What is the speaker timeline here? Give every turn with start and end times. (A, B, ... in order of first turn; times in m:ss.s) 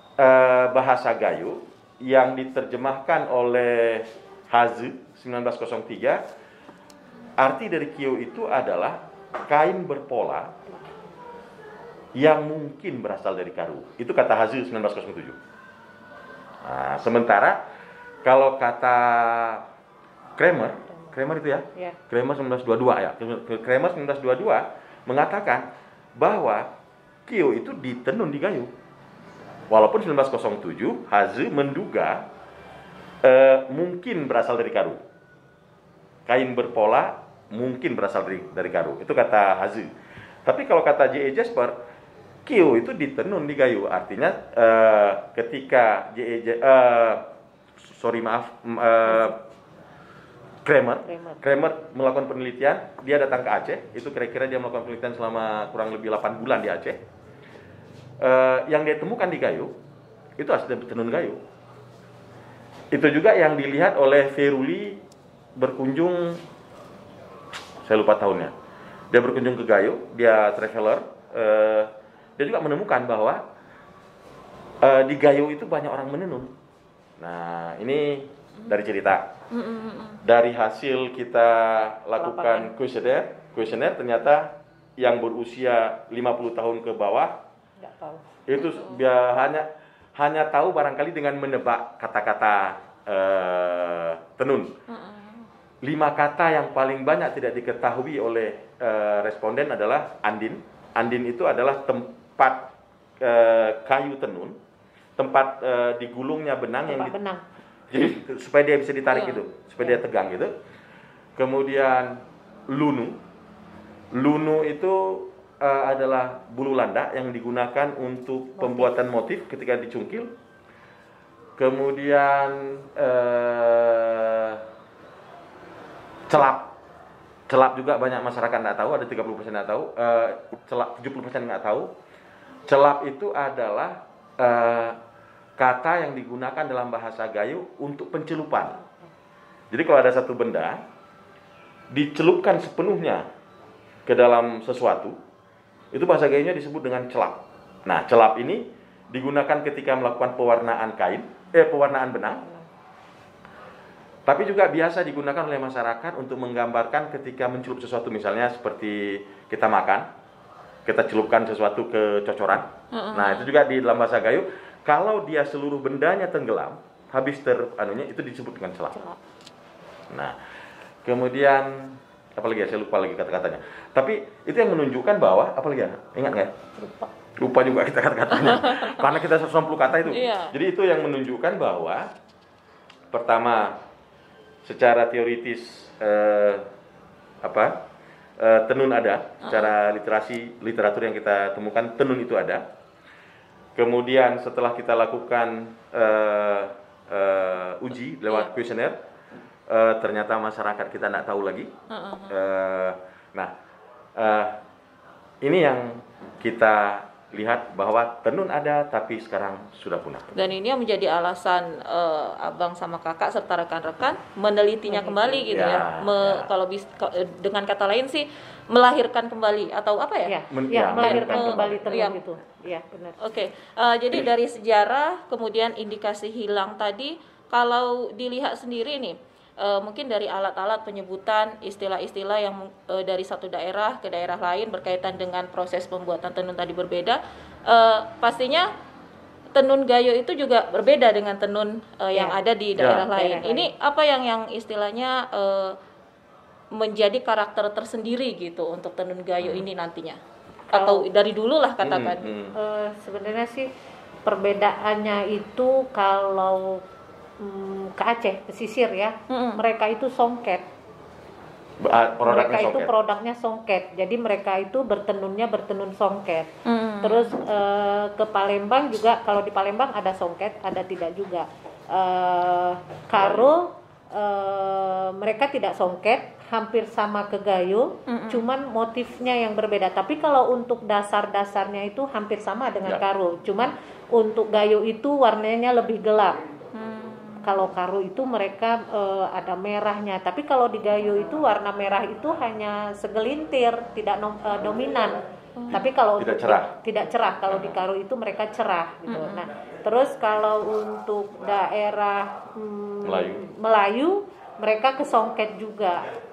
0:00.2-0:06.2 A
0:07.4-0:10.5 A
0:12.2-0:15.4 A
0:16.6-0:17.6 A
0:18.2-0:19.6 A
0:20.4-0:26.7 A
0:27.3-0:28.7 A
0:29.7-0:32.3 A
0:33.2-0:35.0 A
0:36.3-0:39.9 A
0:40.5-0:41.8 A
0:42.4-0:47.2 A
0:47.8-0:49.4 A
0:49.0-0:49.3 B
0:50.6-0:57.0 A
0:51.0-0:51.4 B
0:58.2-0:59.8 A
1:00.4-1:01.4 A
1:02.9-1:05.0 A
1:05.6-1:06.4 A
1:07.8-1:08.5 A
1:09.1-1:13.4 A
1:14.8-1:16.5 A
1:17.2-1:19.3 A
1:19.5-1:20.2 C
1:20.2-1:27.4 A
1:22.2-1:22.7 B
1:27.8-1:28.3 B
1:28.5-1:34.7 A
1:28.6-1:29.0 C
1:34.9-1:35.5 C
1:35.8-1:44.6 A
1:45.2-1:47.2 A
1:46.9-1:47.4 B
1:47.9-1:50.5 A
1:49.1-1:49.4 C
1:51.4-1:53.2 A
1:54.1-2:00.3 A
1:58.6-1:58.9 B
2:01.6-2:04.6 A
2:06.3-2:06.7 A
2:07.5-2:11.9 A
2:12.7-2:15.0 A
2:15.6-2:18.8 A
2:19.7-2:20.8 A
2:21.9-2:23.3 A
2:24.0-2:25.2 A
2:25.9-2:32.4 A
2:34.3-2:40.1 A
2:40.8-2:49.0 A
2:42.9-2:43.5 C
2:51.0-2:56.5 A
2:56.8-2:57.1 B
2:57.4-3:02.1 A
2:58.4-2:59.0 C
3:00.1-3:00.5 C
3:03.1-3:03.8 A
3:04.6-3:06.6 A
3:07.4-3:07.8 A
3:08.4-3:12.7 A
3:09.4-3:09.7 C
3:13.8-3:19.0 A
3:19.7-3:21.7 A
3:21.9-3:22.4 C
3:22.3-3:23.5 A
3:24.2-3:24.6 A
3:25.4-3:30.3 A
3:30.3-3:40.3 C
3:34.8-3:35.5 B
3:35.5-3:36.5 A
3:40.3-3:43.2 B
3:40.5-3:41.8 A
3:41.0-3:42.2 C
3:43.2-3:58.7 C
3:59.5-4:05.8 C
4:02.8-4:03.1 A
4:03.1-4:03.7 B
4:06.7-4:10.2 C
4:09.4-4:09.7 A
4:10.7-4:11.1 B
4:10.7-4:12.3 C
4:11.8-4:12.5 A
4:12.6-4:13.7 B
4:14.2-4:16.8 B
4:17.4-4:20.7 B
4:19.3-4:19.6 C
4:21.8-4:22.9 A
4:22.3-4:26.5 B
4:26.7-4:27.3 C
4:27.0-4:46.4 B
4:33.2-4:33.5 A
4:38.1-4:38.5 C
4:46.8-4:47.4 C
4:47.4-4:55.2 B
4:55.6-4:55.8 C
4:55.7-5:06.1 B
4:56.2-4:56.7 A
4:57.5-4:57.8 A
4:59.1-4:59.5 C
5:03.0-5:03.5 A